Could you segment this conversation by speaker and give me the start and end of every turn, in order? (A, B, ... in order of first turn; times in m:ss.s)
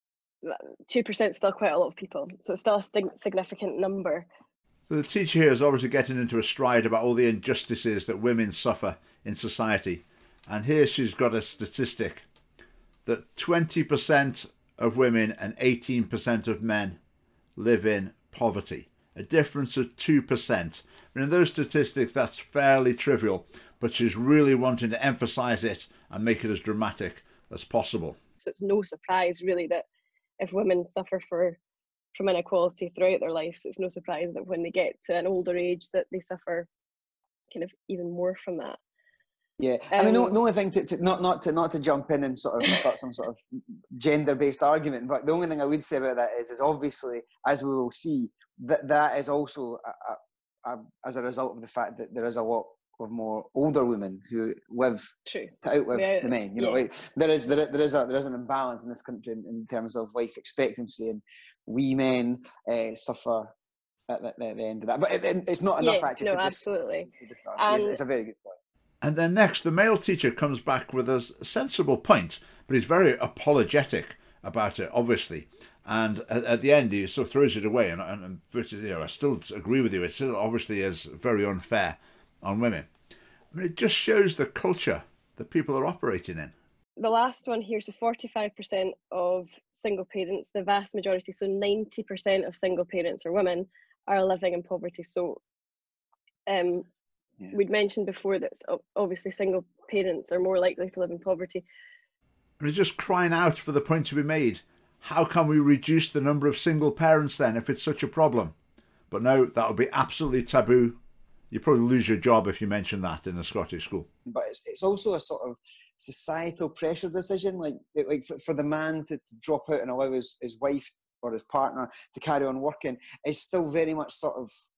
0:00.4-0:04.3 A
0:04.9-0:12.2 B
0:13.1-0:17.0 B
0:17.6-0:28.2 B
0:28.4-0:29.8 A
0:30.4-0:31.6 A
0:32.2-0:36.7 A
0:37.5-0:38.8 A
0:39.6-0:43.4 C
0:39.9-0:40.3 A
0:44.0-0:55.1 C
0:55.3-0:56.8 A
0:55.6-1:03.5 C
1:04.1-1:06.7 C
1:05.8-1:08.0 A
1:07.2-1:08.6 C
1:09.0-1:22.9 B
1:23.5-1:26.5 B
1:27.0-1:35.4 A
1:36.5-1:36.9 A
1:37.5-1:41.6 A
1:42.6-1:48.5 B
1:49.1-1:51.0 B
1:51.5-1:54.1 B
1:54.3-2:04.5 C